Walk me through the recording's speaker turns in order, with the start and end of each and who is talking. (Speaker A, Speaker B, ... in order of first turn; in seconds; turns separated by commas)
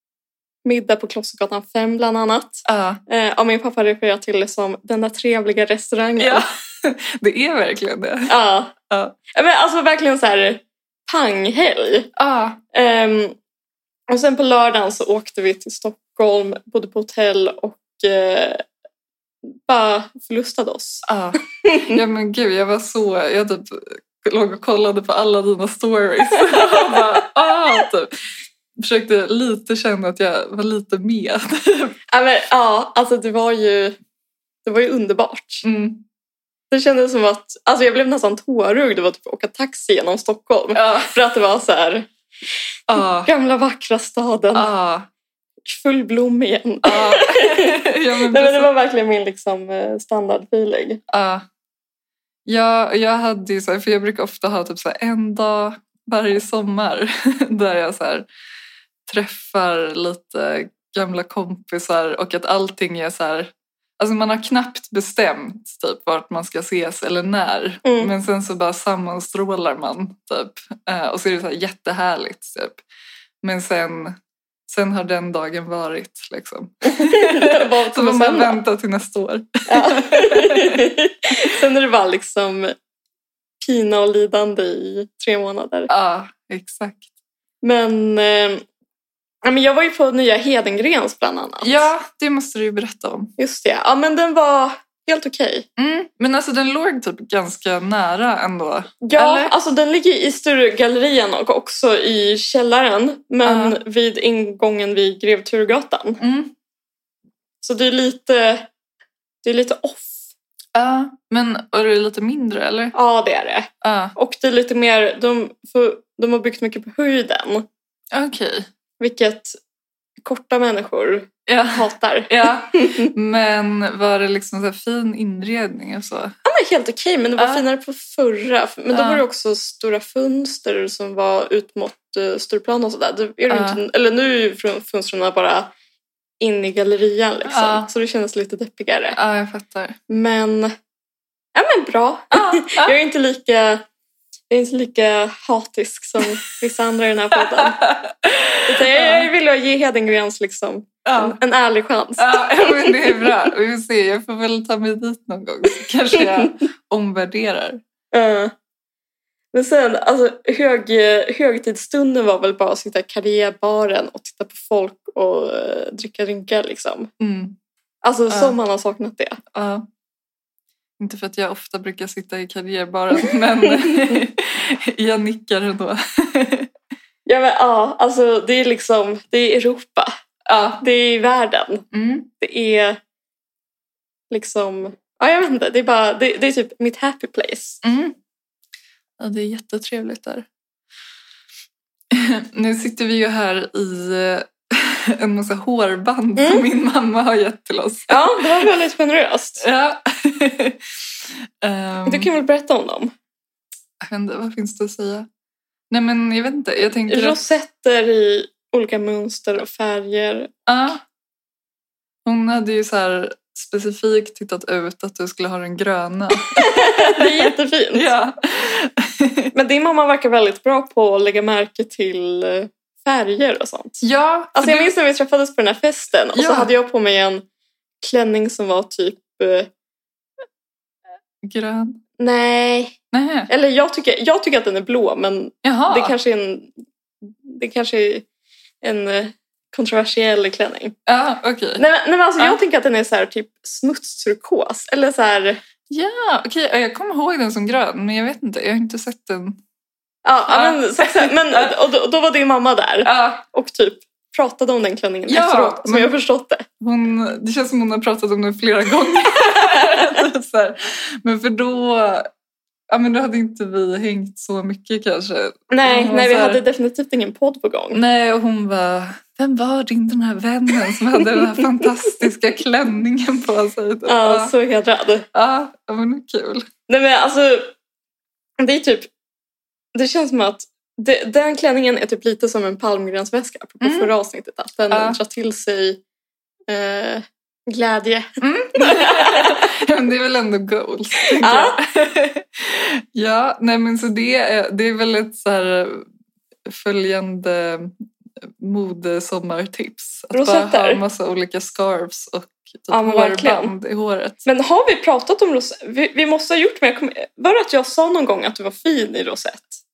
Speaker A: 0.6-6.5, Speaker B: 2.6-3.0, Speaker B: 6.2-8.3, Speaker A: 8.3-8.7, Speaker B: 8.9-9.2, Speaker A: 9.3-12.1, Speaker B: 12.2-12.6, Speaker A: 12.7-13.3, Speaker A: 14.1-18.6, Speaker A: 19.6-21.1, Speaker B: 21.1-28.1, Speaker A: 21.6-22.0, Speaker A: 26.4-27.0, Speaker B: 28.8-31.9, Speaker A: 32.1-34.0, Speaker A: 34.6-35.6, Speaker B: 35.6-36.0, Speaker A: 36.7-42.1, Speaker B: 40.7-41.1, Speaker B: 42.9-43.3, Speaker A: 43.2-44.7, Speaker B: 44.5-45.1, Speaker A: 45.6-51.0, Speaker B: 46.8-48.7, Speaker B: 51.1-51.5, Speaker B: 52.5-58.3, Speaker B: 59.0-72.8, Speaker A: 67.8-68.1, Speaker B: 73.4-74.2, Speaker B: 74.7-80.9, Speaker A: 76.8-78.6, Speaker A: 79.7-82.7, Speaker A: 83.6-85.9, Speaker B: 85.9-87.1, Speaker A: 87.6-88.6, Speaker A: 89.4-91.9, Speaker B: 91.6-93.3, Speaker A: 93.4-95.7, Speaker B: 95.8-99.5, Speaker A: 99.0-106.2, Speaker B: 103.4-103.8, Speaker B: 106.2-106.5, Speaker A: 107.6-108.7, Speaker A: 109.4-110.1, Speaker B: 110.7-112.9, Speaker A: 112.9-117.7, Speaker B: 113.8-114.1, Speaker B: 118.1-118.7, Speaker A: 119.0-119.6, Speaker A: 120.2-123.1, Speaker B: 121.5-126.3, Speaker A: 126.4-135.7, Speaker B: 127.4-127.6, Speaker B: 128.9-129.2, Speaker B: 133.5-133.8, Speaker A: 136.4-139.2, Speaker B: 137.5-137.9, Speaker B: 139.1-139.9, Speaker A: 140.1-140.7, Speaker A: 141.5-143.8, Speaker B: 142.3-142.9, Speaker A: 144.5-147.8, Speaker B: 147.6-149.3, Speaker A: 148.7-153.3, Speaker B: 151.0-151.3, Speaker B: 152.2-157.8, Speaker A: 156.2-156.5, Speaker A: 158.1-158.5, Speaker A: 159.5-167.1, Speaker B: 167.2-167.6, Speaker A: 168.0-169.4, Speaker B: 168.3-168.6, Speaker B: 169.5-169.8, Speaker B: 171.0-176.7, Speaker A: 173.7-174.2, Speaker A: 177.2-180.1, Speaker B: 180.4-180.8, Speaker A: 180.8-181.8, Speaker B: 181.9-182.3, Speaker A: 182.4-183.0, Speaker A: 184.3-187.8, Speaker B: 187.8-188.2, Speaker B: 189.2-190.4, Speaker B: 192.1-198.6, Speaker A: 196.3-196.6, Speaker A: 198.1-199.6, Speaker B: 199.6-202.3, Speaker A: 202.1-203.1, Speaker B: 204.0-205.3, Speaker B: 205.9-207.4, Speaker A: 207.1-210.5, Speaker B: 210.7-211.0, Speaker B: 212.2-219.5, Speaker A: 216.5-218.1, Speaker A: 219.5-227.4, Speaker B: 224.0-224.9, Speaker B: 226.3-226.7, Speaker A: 228.0-229.7, Speaker B: 231.4-232.0, Speaker A: 232.2-233.0, Speaker B: 233.1-233.5, Speaker A: 233.5-236.7, Speaker B: 235.6-236.1, Speaker A: 237.2-238.2, Speaker A: 238.8-240.9, Speaker B: 241.1-241.8, Speaker A: 241.8-245.6, Speaker B: 245.9-249.6, Speaker A: 250.2-256.6, Speaker B: 250.5-251.7, Speaker B: 253.0-253.4, Speaker B: 255.3-256.1, Speaker B: 256.8-262.3, Speaker A: 259.6-260.0, Speaker B: 262.9-266.6, Speaker A: 265.7-268.0, Speaker B: 267.9-274.5, Speaker A: 274.1-275.2, Speaker B: 275.3-276.7, Speaker A: 276.9-277.7, Speaker A: 278.6-279.1, Speaker A: 279.9-286.0, Speaker B: 283.8-284.1, Speaker B: 284.9-285.2, Speaker A: 286.7-289.7, Speaker B: 288.4-296.1, Speaker A: 291.4-291.8, Speaker B: 296.6-298.0, Speaker B: 298.6-304.4, Speaker A: 300.3-301.0, Speaker A: 302.9-303.7, Speaker A: 304.4-309.8